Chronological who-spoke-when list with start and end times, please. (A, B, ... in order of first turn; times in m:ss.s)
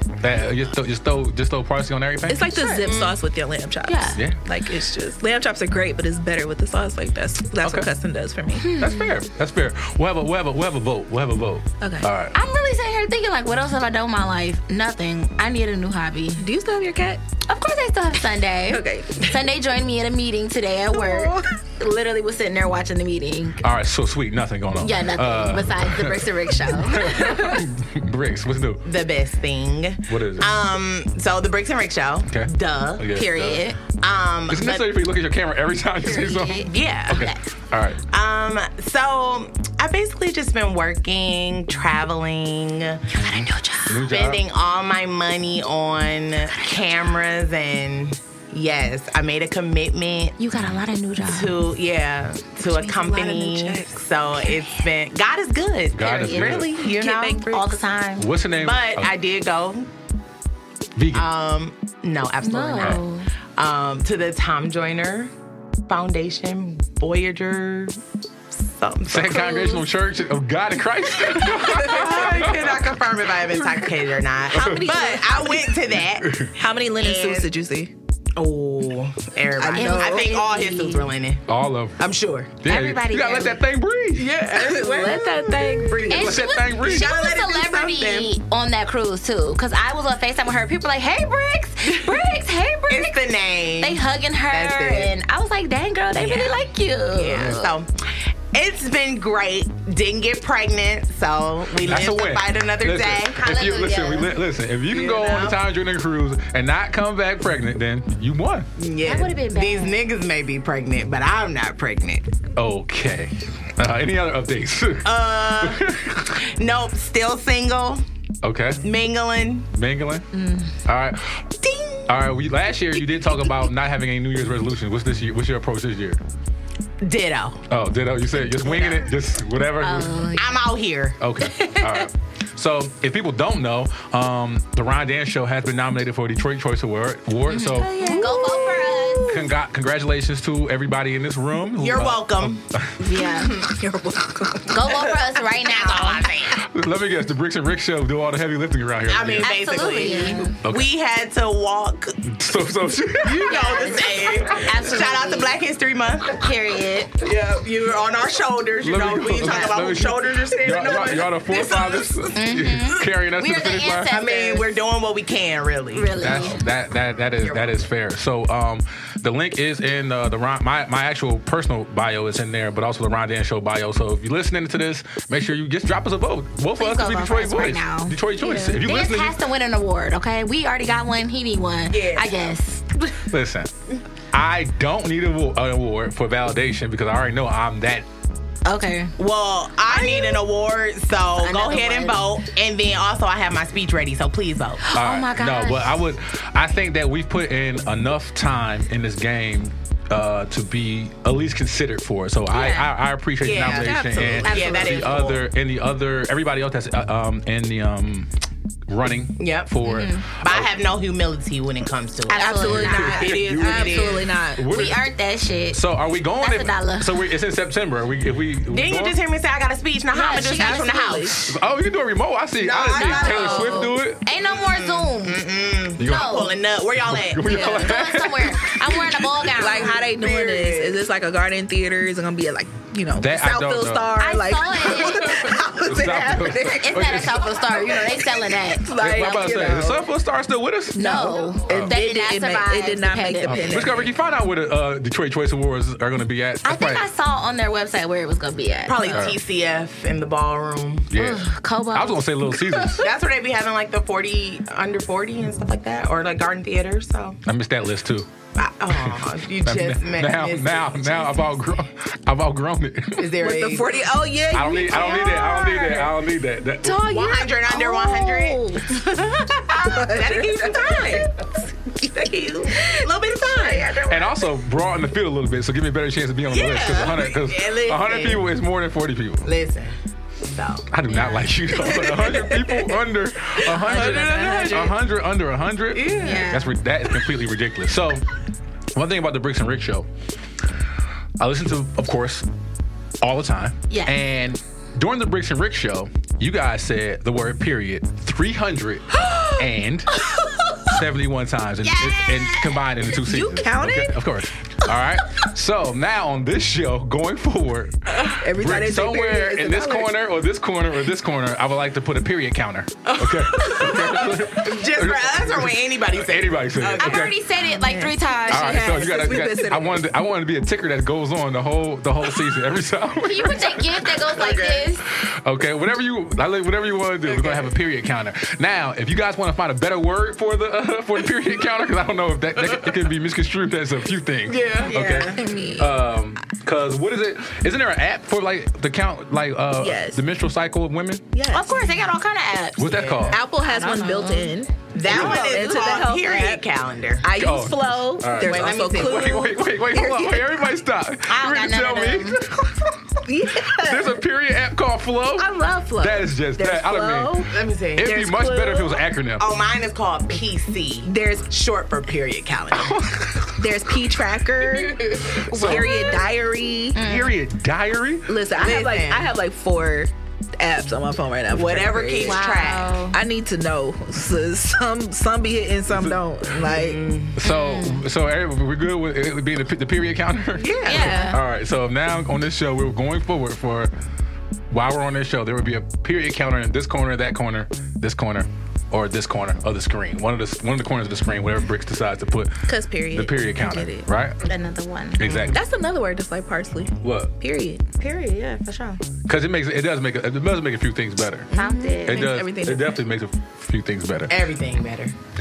0:00.2-0:02.5 A
0:02.3-0:08.7 B
0:02.6-0:03.2 C
0:03.9-0:04.2 D
0:07.6-0:07.9 A
0:08.5-0:09.2 D
0:08.7-0:12.3 A
0:11.8-0:12.1 B
0:12.3-0:16.4 D
0:16.4-0:17.2 B
0:17.5-0:23.6 D
0:18.7-0:19.2 B
0:20.9-0:21.5 B
0:23.6-0:28.8 A
0:24.8-0:27.6 D
0:28.8-0:33.1 C
0:30.1-0:30.5 A
0:32.3-0:33.6 A
0:33.1-0:33.8 D
0:34.0-0:34.9 C
0:34.5-0:38.0 A
0:36.0-0:37.4 D
0:36.7-0:37.3 C
0:38.1-0:43.0 C
0:43.1-0:44.0 D
0:43.9-0:44.4 A
0:44.1-0:50.4 C
0:46.5-0:46.8 D
0:50.4-0:51.6 D
0:51.3-0:57.6 C
0:52.6-0:54.0 B
0:55.9-0:56.7 A
0:56.0-0:56.6 D
0:56.3-0:57.8 B
0:57.4-0:58.3 D
0:58.2-0:59.1 A
0:58.6-0:59.9 C
1:01.0-1:01.3 A
1:01.1-1:03.0 C
1:02.4-1:03.3 D
1:03.6-1:05.3 C
1:05.9-1:08.0 C
1:08.6-1:09.5 C
1:09.1-1:12.8 A
1:09.3-1:09.8 B
1:11.4-1:16.3 C
1:14.5-1:15.8 B
1:14.6-1:14.8 A
1:16.2-1:16.5 A
1:16.5-1:17.9 B
1:17.0-1:17.5 C
1:18.4-1:21.4 C
1:19.6-1:20.3 B
1:19.7-1:21.1 D
1:21.5-1:22.0 A
1:22.0-1:22.5 C
1:22.6-1:24.3 A
1:22.6-1:23.6 D
1:24.2-1:26.0 C
1:24.5-1:26.4 B
1:26.1-1:33.2 D
1:26.1-1:27.1 A
1:26.8-1:28.3 C
1:31.8-1:32.3 C
1:32.9-1:35.1 C
1:33.8-1:37.7 D
1:36.1-1:43.8 C
1:41.8-1:48.7 A
1:43.4-1:44.3 D
1:44.9-1:45.6 C
1:48.8-1:52.3 C
1:49.0-1:50.0 D
1:52.6-1:56.4 A
1:55.0-1:55.8 C
1:56.4-1:58.0 C
1:58.4-1:58.8 A
1:58.8-1:59.7 C
1:59.7-2:00.2 A
2:00.3-2:00.7 D
2:00.8-2:01.4 A
2:01.6-2:02.0 C
2:02.1-2:06.2 A
2:07.0-2:07.6 C
2:07.7-2:10.2 A
2:08.6-2:09.1 C
2:09.8-2:10.5 D
2:10.3-2:11.2 C
2:11.2-2:18.2 A
2:11.4-2:12.0 D
2:17.5-2:19.3 D
2:17.9-2:19.3 B
2:18.0-2:19.0 C
2:19.3-2:22.9 A
2:21.8-2:22.6 C
2:23.0-2:23.6 D
2:23.4-2:23.7 C
2:23.6-2:24.7 B
2:24.7-2:26.3 D
2:25.6-2:26.6 C
2:26.6-2:29.6 A
2:29.1-2:32.2 C
2:29.4-2:30.5 D
2:30.0-2:30.4 B
2:30.6-2:30.9 A
2:32.2-2:33.5 A
2:33.2-2:36.3 C
2:33.4-2:35.5 D
2:36.3-2:37.1 D
2:37.2-2:42.3 C
2:38.8-2:44.1 A
2:39.4-2:39.7 D
2:42.3-2:44.8 D
2:44.1-2:46.5 C
2:45.9-2:46.6 D
2:46.2-2:59.4 A
2:47.4-2:47.8 C
2:56.8-3:03.1 D
3:01.9-3:02.4 C
3:03.3-3:03.7 A
3:04.3-3:08.0 A
3:08.6-3:09.1 D
3:09.2-3:14.8 C
3:09.9-3:10.4 D
3:11.4-3:12.2 D
3:14.8-3:16.0 D
3:14.9-3:28.3 A
3:22.5-3:22.9 D
3:23.4-3:25.4 C
3:23.6-3:25.2 B
3:24.5-3:25.0 D
3:28.9-3:30.7 A
3:29.4-3:29.7 C
3:29.8-3:30.2 D
3:30.4-3:34.3 C
3:32.3-3:33.3 D
3:32.3-3:34.7 B
3:32.6-3:35.0 A
3:34.6-3:35.8 D
3:35.7-3:39.2 A
3:36.4-3:37.2 D
3:38.7-3:41.4 C
3:40.1-3:41.0 D
3:40.1-3:41.5 B
3:41.4-3:44.2 A
3:42.6-3:47.8 C
3:42.9-3:45.4 D
3:46.0-3:46.4 A
3:46.0-3:46.5 D
3:47.0-3:48.7 A
3:47.4-3:50.0 D
3:49.6-3:56.8 B
3:49.6-3:51.0 C
3:53.2-3:54.1 A
3:54.2-3:55.5 D
3:55.4-3:57.5 A
3:56.6-3:59.5 D
3:58.1-4:00.1 B
3:59.0-4:02.0 A
4:00.9-4:03.9 D
4:01.0-4:04.1 B
4:03.4-4:07.0 A
4:06.6-4:09.3 D
4:08.8-4:11.1 C
4:09.1-4:09.4 A
4:11.1-4:13.1 A
4:11.1-4:12.2 D
4:13.0-4:17.4 C
4:17.4-4:18.3 A
4:18.6-4:21.2 C
4:18.9-4:23.3 A
4:23.2-4:24.0 C
4:23.4-4:26.2 B
4:24.5-4:27.0 A
4:26.8-4:31.6 B
4:27.0-4:31.4 C
4:32.0-4:34.0 C
4:32.7-4:34.0 B
4:34.0-4:39.5 A
4:36.5-4:38.4 C
4:39.4-4:39.9 C
4:40.4-4:40.8 C
4:40.9-4:48.2 A
4:41.1-4:41.5 D
4:41.9-4:42.9 C
4:43.7-4:44.9 C
4:43.7-4:45.0 B
4:45.9-4:46.5 C
4:46.2-4:46.7 D
4:48.9-4:50.1 A
4:51.4-4:52.4 A
4:53.2-4:59.0 A
4:53.9-4:54.2 D
4:59.6-5:00.1 A
5:00.9-5:07.9 A
5:01.8-5:02.7 D
5:03.2-5:04.2 B
5:08.4-5:10.1 B
5:08.5-5:17.4 A
5:13.0-5:17.3 C
5:17.0-5:18.9 D
5:17.8-5:20.0 B
5:18.5-5:24.4 A
5:23.2-5:25.0 D
5:24.4-5:24.8 C
5:25.4-5:41.2 A
5:27.3-5:27.6 C
5:34.5-5:35.3 C
5:34.9-5:36.1 B
5:39.8-5:40.2 B
5:41.3-5:41.9 B
5:41.5-5:43.0 D
5:42.8-5:43.4 A
5:42.9-5:43.4 C
5:43.3-5:46.6 B
5:43.6-5:44.5 D
5:44.9-5:47.2 C
5:45.1-5:45.4 A
5:47.2-5:50.6 B
5:47.4-5:52.7 A
5:48.4-5:49.5 C
5:51.3-5:52.4 D
5:53.2-5:54.2 B
5:53.8-5:59.4 A
5:55.4-5:57.5 B
5:57.5-5:58.1 C
5:58.0-5:59.0 B
5:59.4-6:03.0 C
6:01.0-6:01.5 B
6:02.7-6:03.5 A
6:03.6-6:07.0 B
6:05.5-6:06.0 A
6:06.9-6:07.4 D
6:07.0-6:08.3 A
6:08.3-6:17.0 B
6:08.5-6:09.3 C
6:11.5-6:13.0 C
6:12.2-6:13.2 D
6:15.9-6:16.2 A
6:16.6-6:17.3 C
6:17.4-6:23.9 A
6:17.4-6:18.0 D
6:20.6-6:21.2 C
6:20.8-6:21.4 D
6:20.9-6:21.3 B
6:24.7-6:34.4 A
6:32.7-6:34.1 B
6:34.4-6:35.3 D
6:35.2-6:35.6 A
6:35.2-6:35.6 C
6:35.5-6:37.8 B
6:37.0-6:37.3 A
6:38.0-6:39.0 D
6:39.3-6:41.5 A
6:41.5-6:43.0 B
6:41.5-6:42.3 D
6:42.0-6:44.4 A
6:44.3-6:45.1 C